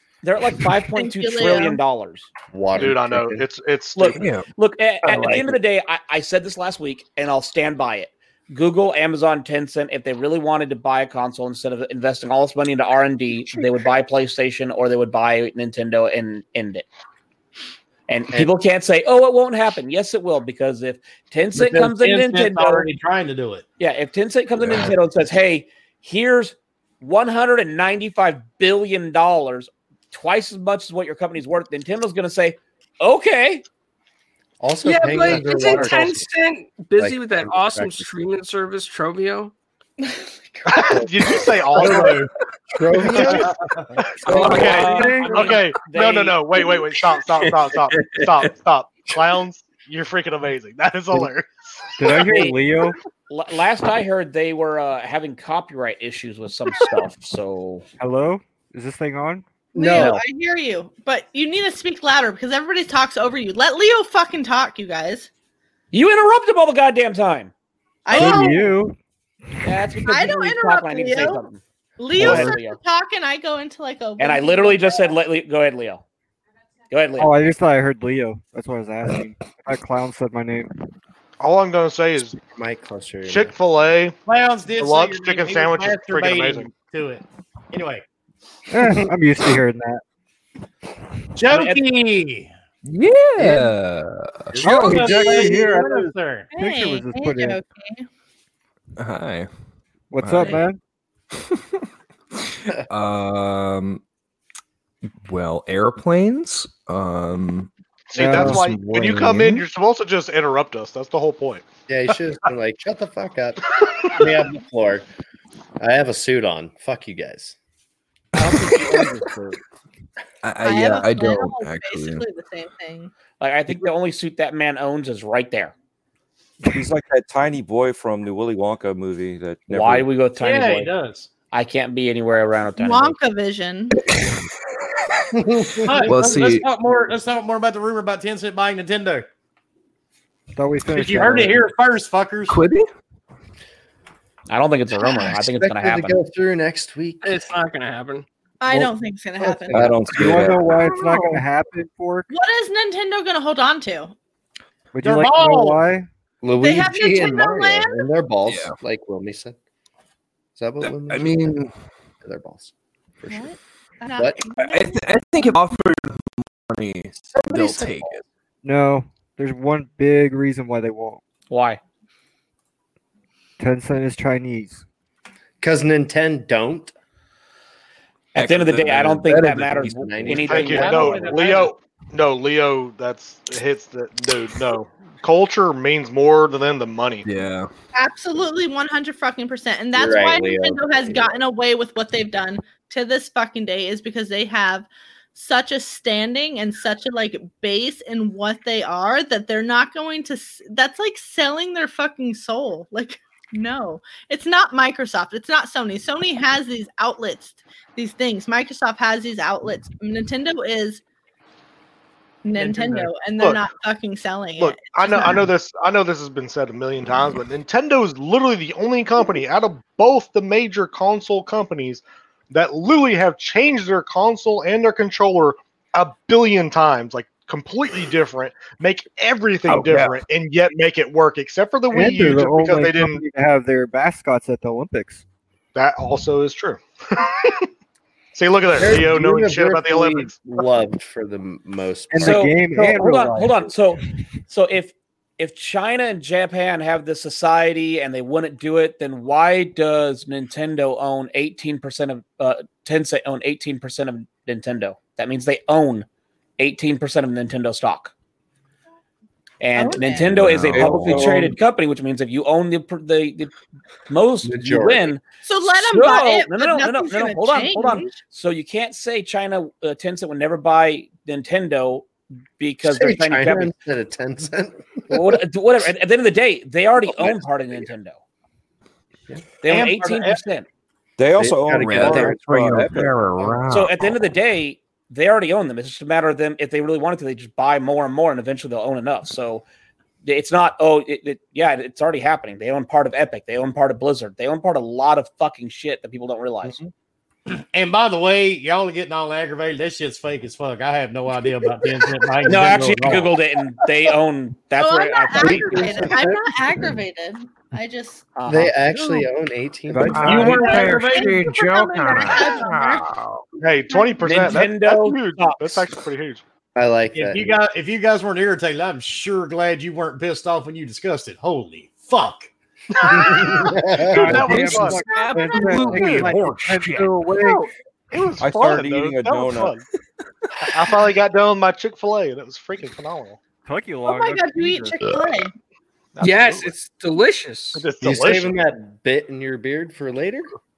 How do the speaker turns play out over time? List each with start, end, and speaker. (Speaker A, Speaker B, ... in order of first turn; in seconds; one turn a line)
Speaker A: 0.2-2.3
Speaker B: 0.9-1.8
Speaker C: 2.5-3.4
Speaker D: 2.8-4.2
Speaker A: 4.0-16.9
Speaker E: 4.1-4.4
Speaker C: 5.0-5.6
Speaker E: 5.1-5.5
Speaker A: 18.1-22.9
Speaker F: 21.5-23.6
Speaker A: 23.8-33.6
Speaker C: 34.6-36.3
Speaker G: 34.8-39.5
Speaker C: 36.9-38.1
Speaker B: 40.0-40.9
Speaker D: 40.7-42.2
Speaker C: 40.9-42.1
Speaker F: 41.7-42.3
Speaker C: 42.7-43.5
Speaker D: 43.1-43.5
Speaker F: 43.1-43.9
Speaker H: 44.2-45.6
Speaker E: 44.2-44.9
Speaker D: 44.2-52.5
Speaker A: 44.3-46.7
Speaker E: 47.2-48.5
Speaker H: 52.0-53.0
Speaker A: 52.1-52.6
Speaker A: 53.3-57.9
Speaker H: 58.0-60.1
Speaker B: 59.7-65.3
Speaker A: 59.9-60.2
Speaker A: 65.9-67.5
Speaker B: 68.0-68.7
Speaker H: 68.1-68.9
Speaker A: 68.1-68.5
Speaker A: 69.6-71.6
Speaker B: 70.1-71.4
Speaker B: 72.0-75.1
Speaker A: 72.1-72.8
Speaker H: 72.2-72.5
Speaker A: 74.2-76.0
Speaker A: 76.9-77.3
Speaker H: 77.2-80.7
Speaker D: 81.4-82.4
Speaker C: 82.4-83.5
Speaker D: 83.2-84.2
Speaker F: 84.2-88.0
Speaker D: 84.8-86.7
Speaker H: 88.7-90.0
Speaker C: 88.8-89.1
Speaker F: 91.3-92.5
Speaker A: 91.5-91.8
Speaker E: 92.8-95.1
Speaker H: 93.4-93.7
Speaker C: 94.5-95.3
Speaker F: 94.6-96.5
Speaker H: 94.6-97.6
Speaker B: 96.5-98.1
Speaker E: 99.0-99.5
Speaker H: 100.1-100.8
Speaker E: 100.2-100.6
Speaker E: 102.9-104.0
Speaker E: 105.3-109.6
Speaker D: 108.1-111.7
Speaker H: 108.2-108.6
Speaker C: 111.9-115.0
Speaker D: 113.8-114.1
Speaker C: 115.8-117.5
Speaker A: 118.4-119.6
Speaker E: 118.4-118.7
Speaker E: 120.4-122.2
Speaker B: 120.6-123.1
Speaker A: 123.4-125.7
Speaker I: 126.7-130.1
Speaker A: 129.7-130.9
Speaker F: 130.3-131.3
Speaker A: 131.5-133.2
Speaker B: 132.8-134.0
Speaker C: 135.3-136.3
Speaker F: 135.8-139.3
Speaker E: 136.0-136.7
Speaker H: 140.5-141.6
Speaker F: 140.9-142.6
Speaker E: 142.5-142.9
Speaker A: 144.5-146.2
Speaker C: 145.0-147.3
Speaker G: 147.2-148.2
Speaker B: 148.6-150.0
Speaker C: 149.4-150.1
Speaker I: 149.7-150.8
Speaker E: 149.8-151.4
Speaker H: 150.1-152.3
Speaker B: 152.3-154.1
Speaker H: 154.9-156.1
Speaker F: 155.0-155.8
Speaker C: 156.4-159.6
Speaker B: 156.6-158.0
Speaker E: 158.4-158.8
Speaker C: 160.6-161.6
Speaker E: 160.8-161.7
Speaker C: 162.2-163.5
Speaker B: 163.3-165.0
Speaker E: 164.6-168.2
Speaker C: 167.3-168.1
Speaker H: 168.6-171.2
Speaker A: 171.5-171.8
Speaker H: 173.6-174.8
Speaker C: 175.6-176.9
Speaker A: 178.3-180.9
Speaker E: 178.3-180.4
Speaker C: 179.3-181.5
Speaker F: 180.4-181.7
Speaker D: 180.5-187.2
Speaker E: 187.2-187.7
Speaker B: 187.9-211.0
Speaker C: 189.9-191.4
Speaker B: 212.4-215.5
Speaker D: 212.6-213.6
Speaker D: 214.6-233.2
Speaker E: 229.7-230.2
Speaker H: 231.9-235.2
Speaker D: 235.7-237.7
Speaker D: 238.3-240.6
Speaker C: 238.7-242.5
Speaker H: 242.1-243.7
Speaker A: 242.2-256.1
Speaker A: 256.6-258.1
Speaker A: 259.6-263.5
Speaker B: 259.8-260.3
Speaker E: 260.3-261.5
Speaker I: 260.6-261.5
Speaker A: 264.1-272.1
Speaker C: 264.4-265.1
Speaker B: 265.4-268.1
Speaker A: 272.6-273.7
Speaker C: 272.8-275.4
Speaker A: 275.1-278.2
Speaker C: 277.0-277.4
Speaker A: 279.6-280.7
Speaker F: 279.7-280.4
Speaker I: 281.2-283.1
Speaker C: 281.4-283.6
Speaker E: 281.7-284.2
Speaker A: 283.7-289.6
Speaker A: 290.2-296.8
Speaker F: 297.5-303.3
Speaker A: 302.4-306.1
Speaker B: 304.8-308.2
Speaker C: 305.4-306.3
Speaker A: 308.4-308.8
Speaker C: 308.5-310.6
Speaker B: 308.9-309.2
Speaker H: 309.9-310.6
Speaker E: 310.0-313.4
Speaker F: 310.2-311.4
Speaker B: 310.3-313.0
Speaker D: 313.6-316.4
Speaker B: 313.9-314.5
Speaker A: 314.2-315.9
Speaker C: 316.7-317.5
Speaker F: 317.1-322.5
Speaker D: 323.0-325.0
Speaker C: 323.1-324.6
Speaker H: 324.0-327.7
Speaker E: 324.3-327.2
Speaker F: 325.4-326.4
Speaker D: 327.4-329.8
Speaker I: 328.4-329.7
Speaker D: 330.7-333.4
Speaker H: 333.6-335.0
Speaker B: 334.1-335.5
Speaker D: 336.1-336.7
Speaker G: 336.2-337.9
Speaker D: 337.7-338.6
Speaker C: 338.0-340.5